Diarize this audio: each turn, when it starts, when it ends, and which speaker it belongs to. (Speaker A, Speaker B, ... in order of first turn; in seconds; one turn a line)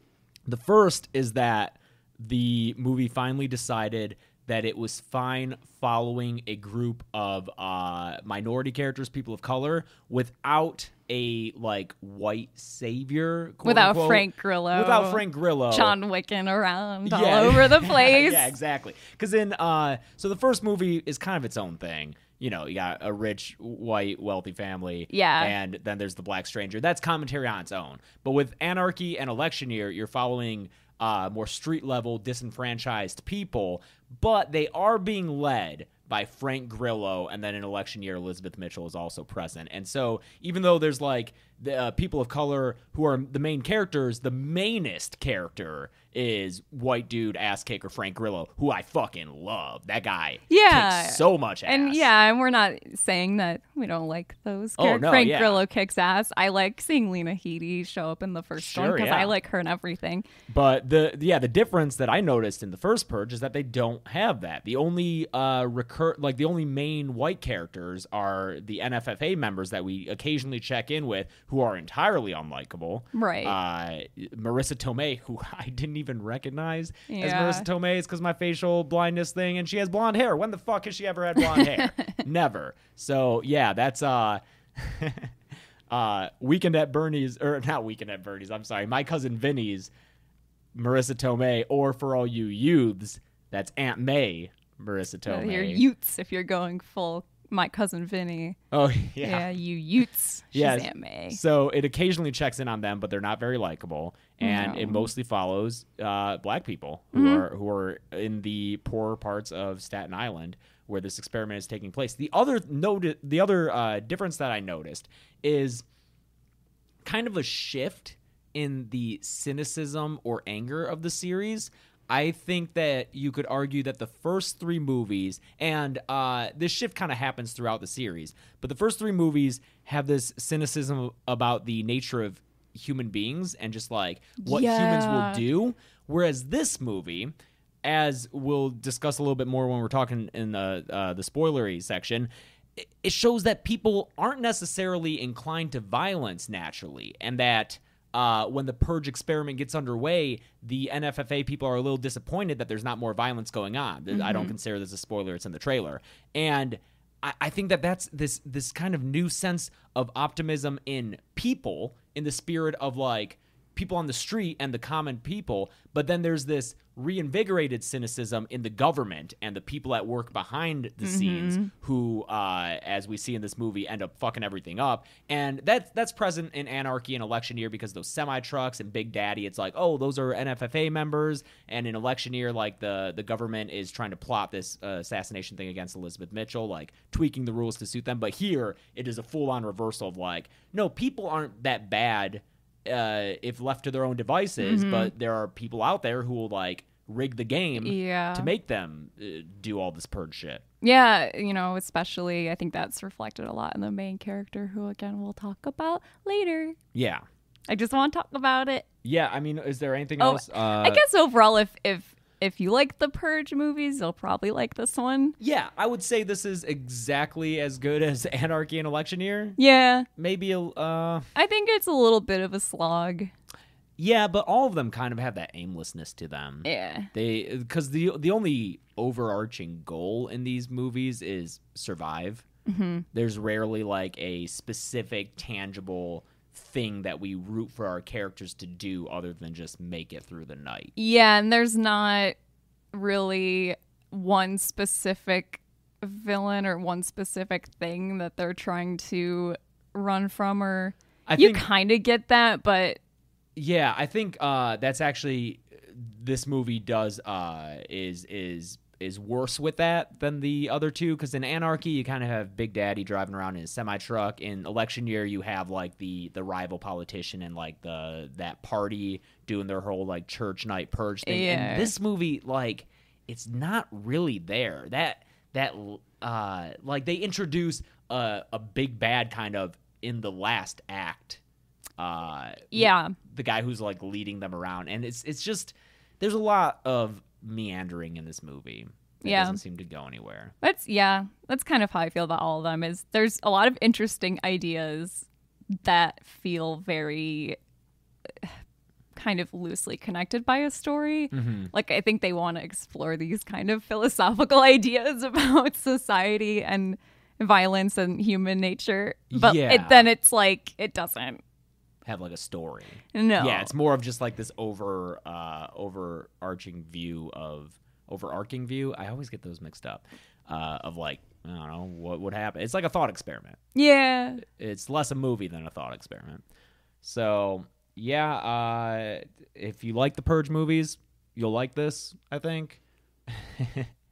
Speaker A: 0.5-16.0
Speaker B: 13.6-18.5
Speaker A: 17.1-52.1
Speaker B: 25.1-25.6
Speaker B: 50.5-60.2
Speaker A: 54.8-55.6
Speaker A: 58.6-59.3
Speaker A: 60.5-85.3
Speaker B: 73.1-73.5
Speaker B: 77.1-77.7
Speaker B: 81.9-82.2
Speaker A: 85.9-89.9
Speaker A: 90.7-95.8
Speaker B: 95.2-98.6
Speaker A: 98.7-99.5
Speaker B: 99.2-101.4
Speaker A: 100.5-115.8
Speaker B: 104.4-105.1
Speaker B: 107.1-107.4
Speaker A: 117.0-200.6
Speaker B: 134.4-135.4
Speaker B: 154.1-154.5
Speaker B: 171.0-171.7
Speaker B: 194.6-195.1
Speaker B: 197.8-198.5
Speaker B: 200.8-206.8
Speaker A: 206.9-207.2
Speaker B: 207.7-208.8
Speaker A: 209.0-211.0
Speaker B: 210.2-215.3
Speaker A: 215.4-219.6
Speaker B: 219.6-220.1
Speaker A: 220.2-221.2
Speaker B: 221.3-223.3
Speaker A: 224.0-232.4
Speaker B: 226.6-227.1
Speaker B: 232.7-233.1
Speaker A: 233.1-240.9
Speaker B: 240.9-242.4
Speaker B: 242.9-253.0
Speaker A: 251.2-251.7
Speaker A: 253.6-281.4
Speaker B: 271.2-271.9
Speaker A: 282.0-290.5
Speaker B: 282.7-283.1
Speaker B: 289.2-289.6
Speaker B: 290.6-297.6
Speaker B: 299.1-311.4
Speaker A: 301.3-301.7
Speaker A: 309.3-310.1
Speaker A: 312.0-323.6
Speaker B: 313.1-313.7
Speaker B: 323.7-324.4
Speaker A: 324.4-326.4
Speaker A: 327.0-333.9